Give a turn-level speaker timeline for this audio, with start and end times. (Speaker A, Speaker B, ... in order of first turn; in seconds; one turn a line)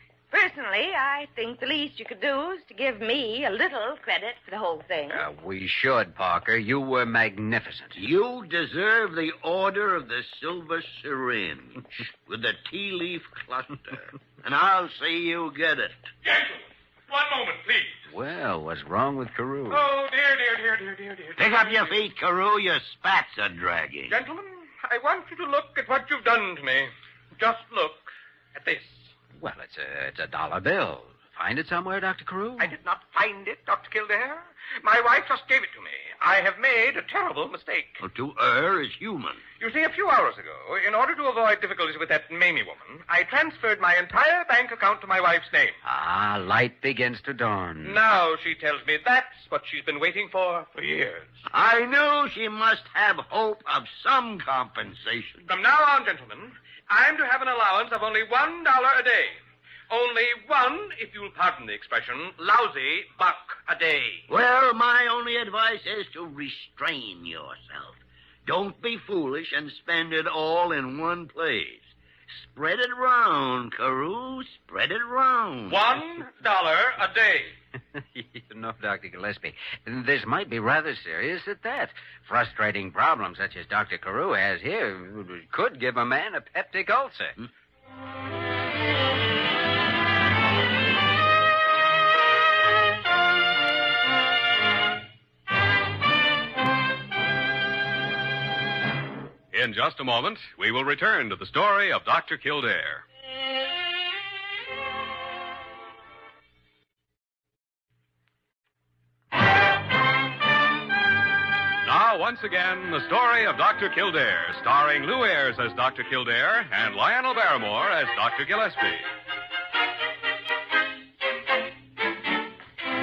Speaker A: 0.3-5.2
Speaker B: 5.1-8.0
Speaker C: 8.0-16.1
Speaker D: 16.2-18.0
Speaker B: 18.1-19.9
Speaker D: 19.7-21.9
Speaker C: 21.4-24.1
Speaker D: 24.1-29.1
Speaker B: 29.3-32.7
Speaker D: 32.6-38.0
Speaker C: 38.0-39.4
Speaker D: 39.6-45.8
Speaker B: 45.8-48.0
Speaker D: 47.8-51.4
Speaker C: 51.5-55.5
Speaker D: 55.4-64.2
Speaker C: 64.3-75.8
Speaker D: 75.7-77.5
Speaker B: 77.9-87.3
Speaker E: 99.5-103.0
Speaker E: 111.8-119.1